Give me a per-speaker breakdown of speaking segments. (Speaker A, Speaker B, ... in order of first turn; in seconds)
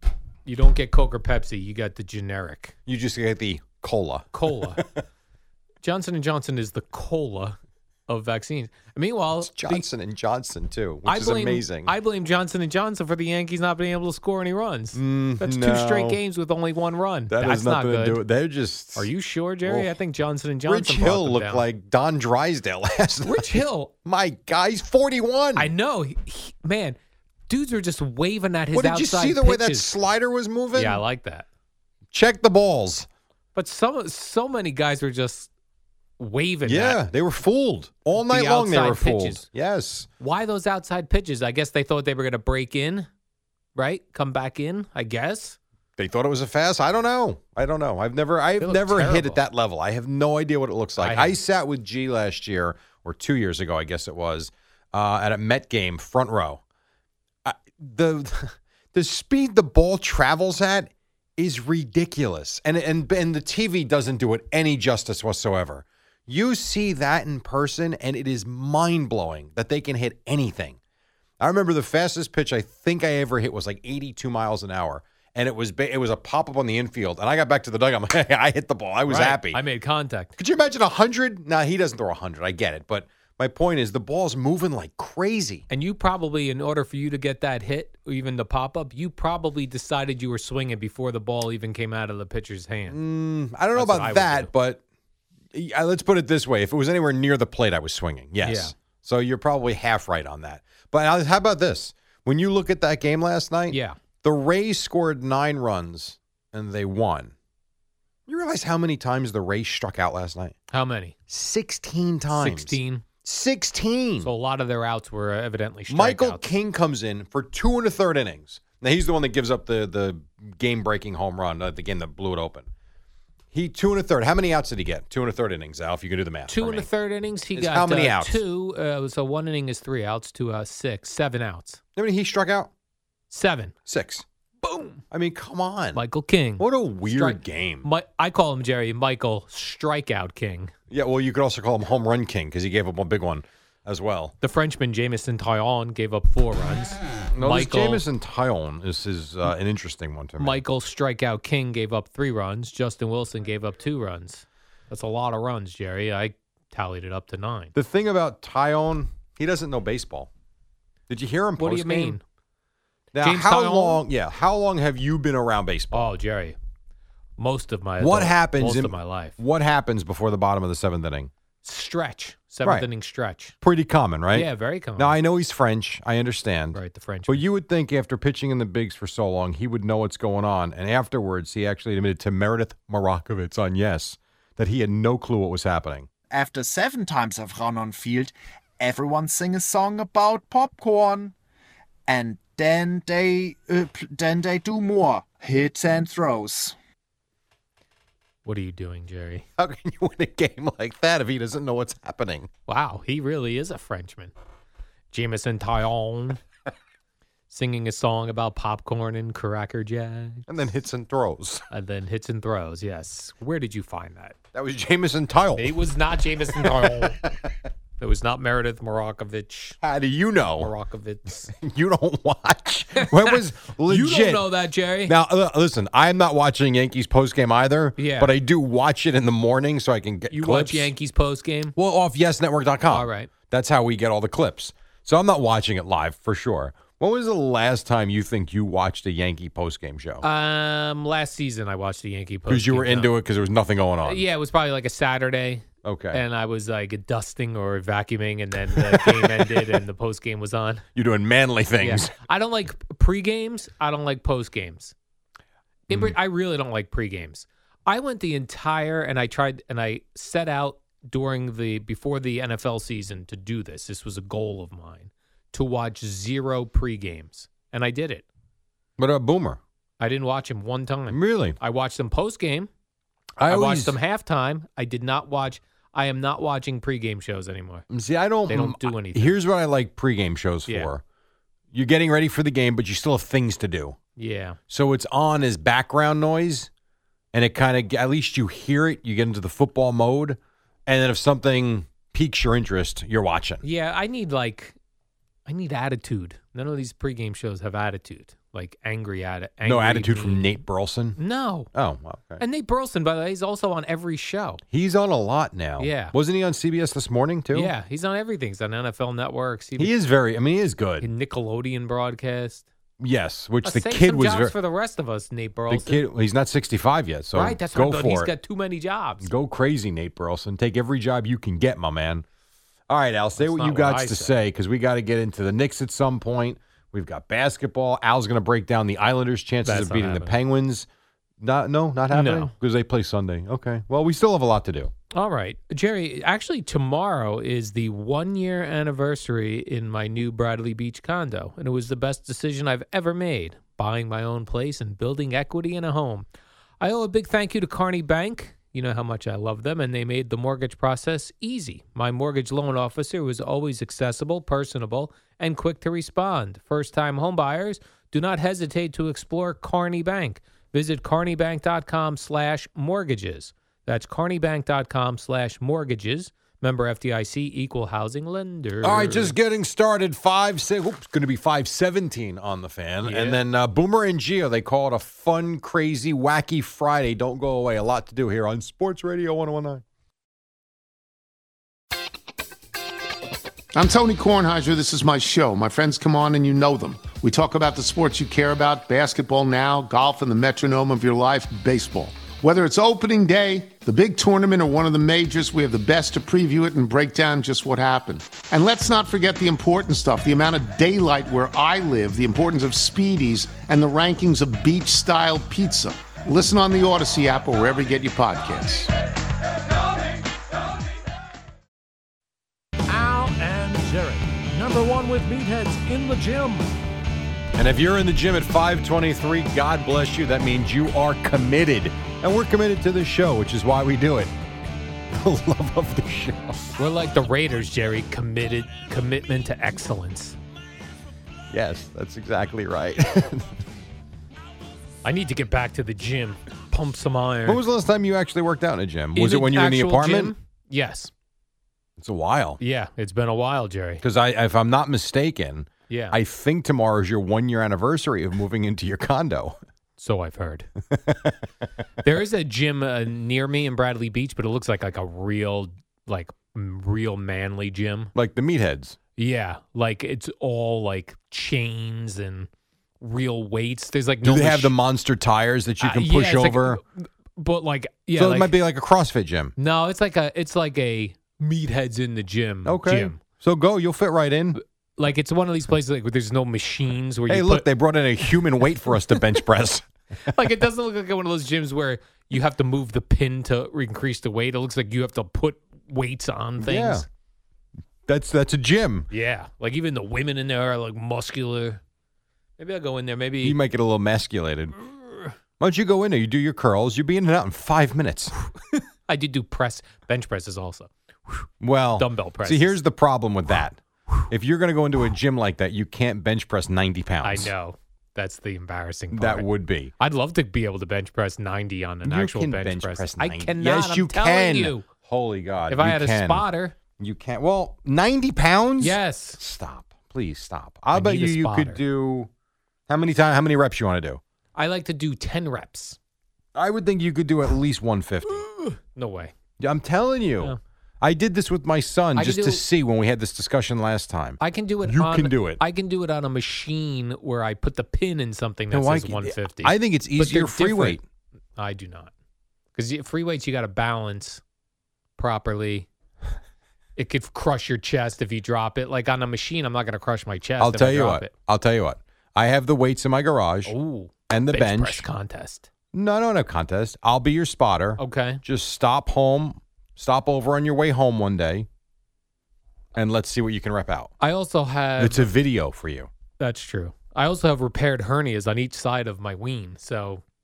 Speaker A: 0.5-2.8, 4.3-4.8, 5.8-7.6, 8.1-9.8, 11.1-18.2, 19.0-21.7, 23.2-23.9, 25.6-27.0, 27.5-29.9, 30.7-31.5, 33.5-35.5, 36.2-37.0, 38.2-39.5, 40.2-43.1, 43.8-45.6, 48.6-49.4, 51.0-51.4, 79.1-80.3, 85.7-93.0, 93.7-94.5, 98.4-98.7, 103.7-104.0, 110.7-111.2, 112.3-113.0, 114.2-116.5, 126.5-131.8, 133.3-133.7, 134.6-135.0, 135.9-140.7, 144.4-148.0, 150.4-157.7, 161.6-162.2, 163.2-164.0, 165.9-166.6, 167.4-169.4, 171.6-173.5, 174.3-175.2, 176.7-177.4, 198.4-199.4, 202.7-204.3, 205.1-206.4, 207.5-210.5, 211.7-214.4, 215.6-217.2, 218.0-219.8, 220.6-221.5, 223.0-225.1, 228.0-228.3, 230.3-231.8, 232.9-233.3, 240.2-243.1, 244.0-250.8, 251.8-254.9, 255.9-268.3, 270.0-272.7, 273.5-277.9, 278.5-279.4, 284.2-284.6, 293.6-294.8, 295.5-300.6, 301.2-301.7, 302.4-304.6, 305.8-306.1, 307.5-309.9, 311.0-312.7, 313.6-316.1, 317.3-319.3, 323.4-324.4, 329.6-330.4, 332.1-332.5, 335.1-346.3, 346.8-369.4, 373.0-373.4, 426.8-430.4, 435.0-437.6, 439.1-441.1, 442.6-444.0, 445.9-446.2, 450.0-450.7, 452.0-458.1, 459.2-462.5, 463.0-464.8, 465.8-468.6, 469.6-473.2, 475.0-477.7, 480.2-487.1, 489.1-491.8, 492.6-493.6, 495.0-495.3, 498.7-502.8, 507.2-509.5, 510.0-514.9, 515.7-516.8, 518.8-519.4, 520.9-521.8, 524.6-526.0, 528.3-529.3, 532.2-532.6, 534.4-541.0, 541.6-542.1, 542.8-544.4, 545.2-545.9, 547.0-551.3, 553.7-555.7, 558.0-558.4, 564.2-565.3, 566.4-570.2
Speaker B: 2.9-5.0, 9.4-11.9, 14.9-16.2, 17.3-19.1, 19.6-19.9, 20.6-25.7, 28.7-31.0, 32.1-33.1, 36.6-40.1, 46.0-56.6, 57.5-70.8, 71.4-79.6, 80.4-85.7, 92.9-94.8, 95.5-107.3, 108.3-110.5, 111.3-114.3, 115.9-122.7, 123.5-126.9, 127.5-128.4, 132.0-132.7, 133.9-134.2, 135.1-136.0, 136.6-137.9, 140.9-144.3, 147.3-150.6, 157.8-160.3, 161.1-162.2, 163.1-166.1, 168.0-171.3, 173.6-186.1, 199.6-202.5, 210.5-211.7, 214.5-215.8, 216.6-217.3, 219.8-220.7, 221.5-224.5, 225.1-230.9, 231.8-240.2, 242.5-244.2, 245.8-246.2, 248.7-249.7, 250.9-252.1, 255.9-256.1, 269.0-269.6, 271.1-271.6, 273.4-274.0, 277.9-281.0, 281.7-284.0, 284.7-286.7, 287.3-293.6, 299.6-301.2, 301.7-302.4, 304.7-307.7, 309.8-311.1, 313.0-314.5, 315.7-318.3, 319.2-322.2, 322.9-330.9, 331.4-334.9, 368.8-379.8, 417.6-424.3, 425.1-426.7, 431.5-433.5, 437.4-440.3, 442.0-442.6, 444.0-449.6, 450.9-451.4, 458.1-459.0, 464.2-466.8, 468.2-469.5, 472.6-474.6, 477.3-479.9, 486.6-487.1, 488.1-489.1, 493.4-494.8, 495.6-498.3, 501.6-507.5, 509.1-509.9, 512.0-516.5, 517.0-522.3, 522.9-524.2, 526.5-528.4, 529.6-535.6, 538.7-541.0, 550.6-553.8, 554.3-555.0, 555.9-561.7, 562.9-564.1, 565.0-566.1
Speaker C: 186.3-191.3, 192.1-196.8
Speaker D: 383.8-408.9
Speaker E: 412.9-416.7